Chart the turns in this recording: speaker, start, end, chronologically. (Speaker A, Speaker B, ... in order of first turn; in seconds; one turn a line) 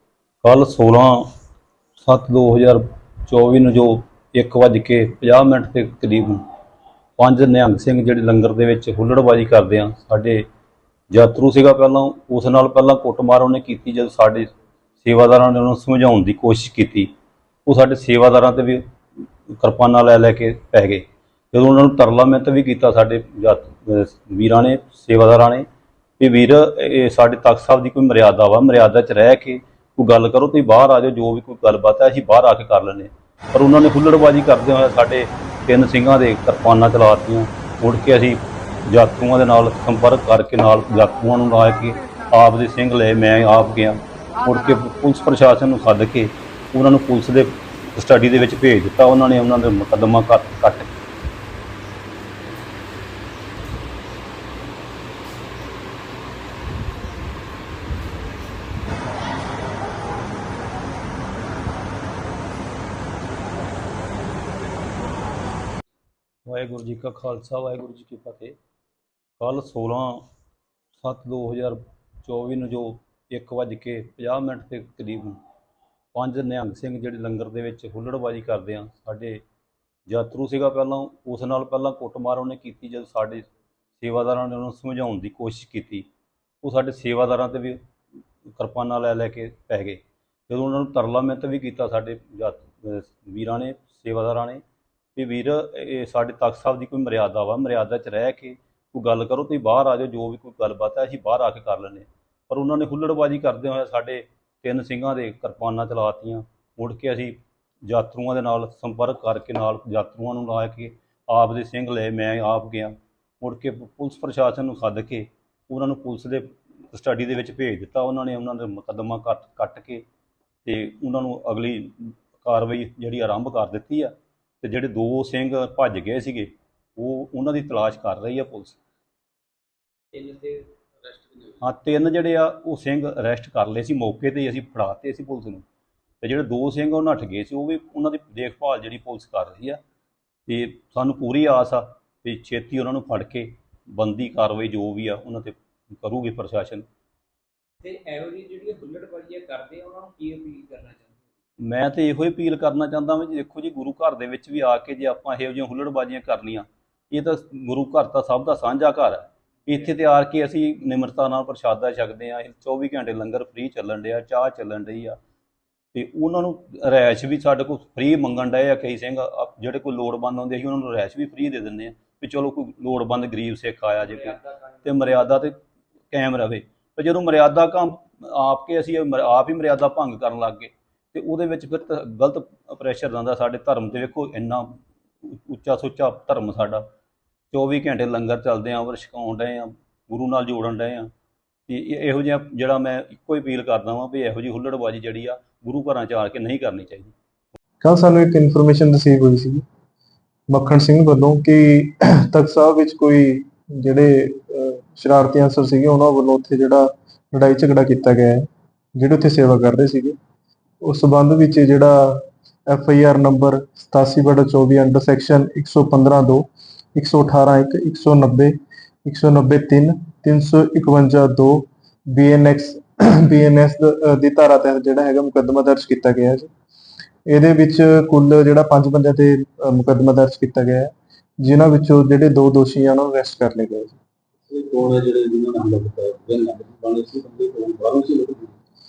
Speaker A: 0.4-1.3
Speaker A: 2.0-6.4
Speaker A: 7.2-10.4
Speaker A: 11.1-14.5
Speaker A: 15.0-17.1
Speaker A: 17.6-18.8
Speaker A: 19.5-25.6
Speaker A: 26.2-50.9
Speaker A: 66.5-68.5
Speaker A: 69.4-70.2
Speaker A: 70.9-75.4
Speaker A: 76.1-79.4
Speaker A: 80.1-86.0
Speaker A: 86.6-87.8
Speaker A: 88.5-94.6
Speaker A: 95.2-120.0
Speaker A: 120.6-128.8
Speaker B: 130.1-131.6
Speaker A: 131.6-135.6
Speaker A: 136.2-139.8
Speaker A: 140.5-146.8
Speaker B: 147.8-151.2
Speaker A: 151.6-165.2
Speaker A: 165.9-175.6
Speaker B: 174.2-174.8
Speaker A: 176.1-186.8
Speaker A: 187.5-191.1
Speaker A: 191.7-197.1
Speaker C: 197.8-199.6
Speaker C: 200.5-210.2
Speaker C: 210.8-218.5
Speaker C: 219.0-226.5
Speaker C: 227.3-234.0
Speaker D: 234.5-238.5